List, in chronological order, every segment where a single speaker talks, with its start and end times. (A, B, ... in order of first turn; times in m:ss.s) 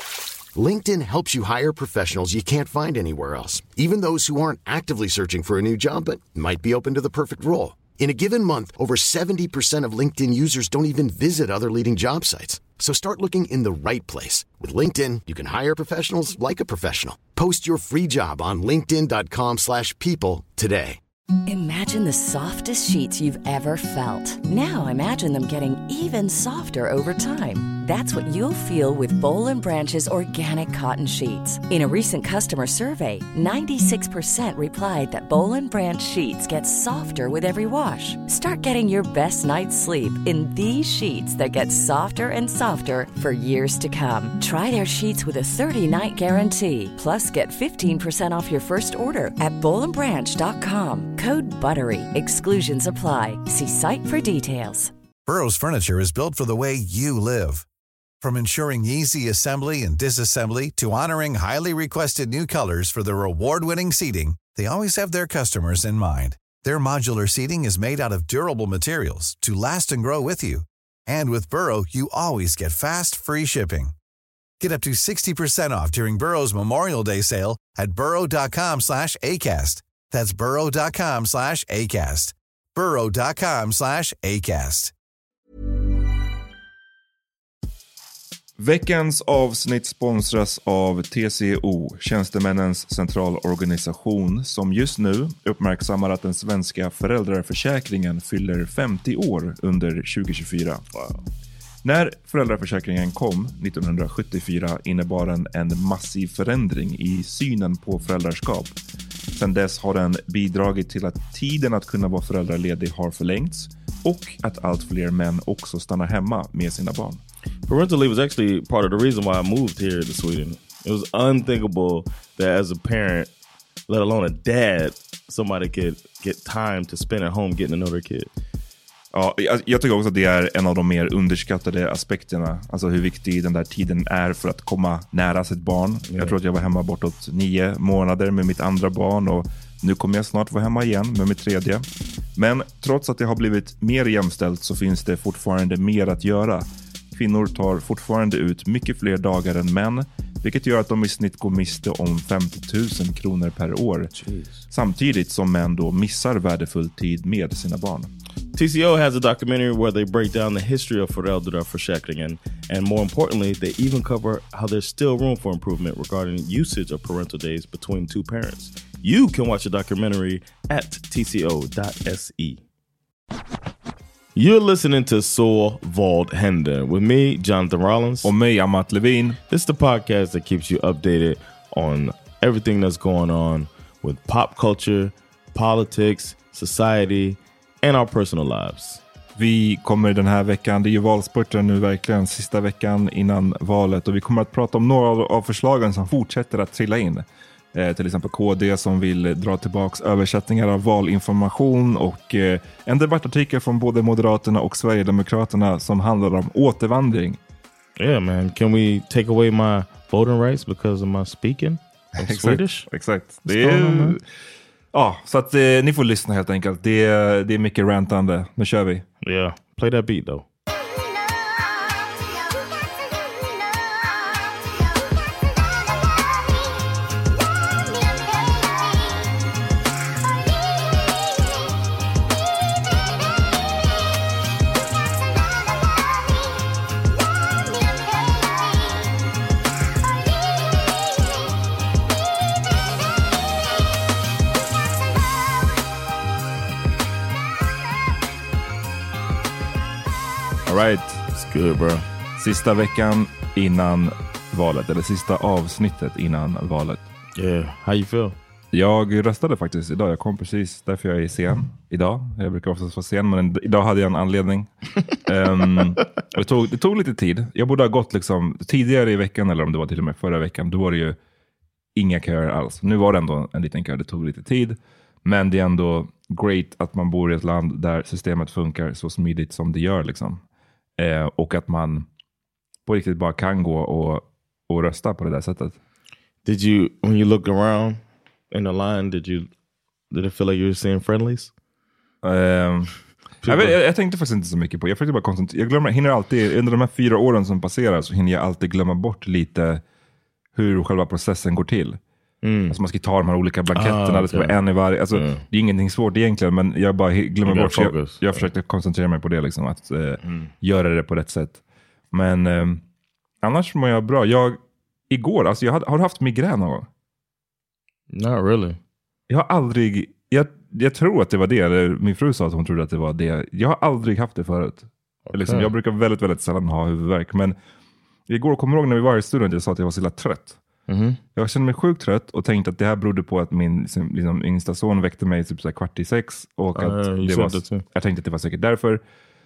0:00.5-0:21.0 A
0:21.4-0:54.9 B
0:55.2-0:57.6 C
0:58.2-1:13.9 C
1:14.6-1:24.9 C
1:28.6-1:40.8 D
1:40.9-1:41.2 E
1:41.8-1:48.8 D
1:49.4-1:57.2 D
1:57.7-2:03.3 E
2:03.9-2:08.3 E
2:09.1-2:21.8 D
2:16.1-2:16.3 E
2:22.4-2:34.1 D
2:34.1-2:34.6 E
2:34.7-2:38.1 D
2:38.5-2:52.6 E
2:54.3-2:58.3 E
2:58.2-2:59.4 D
2:59.5-3:09.0 E
3:09.4-3:27.4 D
3:28.0-3:32.9 E
3:32.2-3:34.2 D
3:33.4-3:34.2 E
3:34.9-3:39.0 D
3:39.2-3:40.4 E
4:10.6-4:11.2 D
4:11.3-4:12.1 E
4:12.4-4:17.0 D
4:17.4-4:18.4 E
4:18.7-4:31.2 D
4:32.0-4:40.4 D
4:41.0-4:42.1 D
4:42.8-4:45.8 D
4:46.4-4:48.0 E
4:48.5-4:49.5 E
4:50.1-4:51.5 E
4:52.2-4:59.8 D
4:53.4-4:53.8 E
5:00.5-5:02.0 D
5:02.4-5:02.8 E
5:02.7-5:11.6 D
5:03.7-5:04.6 E
5:05.1-5:05.4 E
5:07.4-5:08.5 E
5:10.2-5:10.5 E
5:12.1-5:12.8 D
5:13.4-5:14.6 D
5:15.1-5:16.9 D
5:18.1-5:18.8 E
5:19.3-5:27.6 D
5:25.3-5:25.7 E
5:28.3-5:30.6 D
5:30.9-5:31.2 E
5:31.4-5:39.0 D
5:36.8-5:37.8 E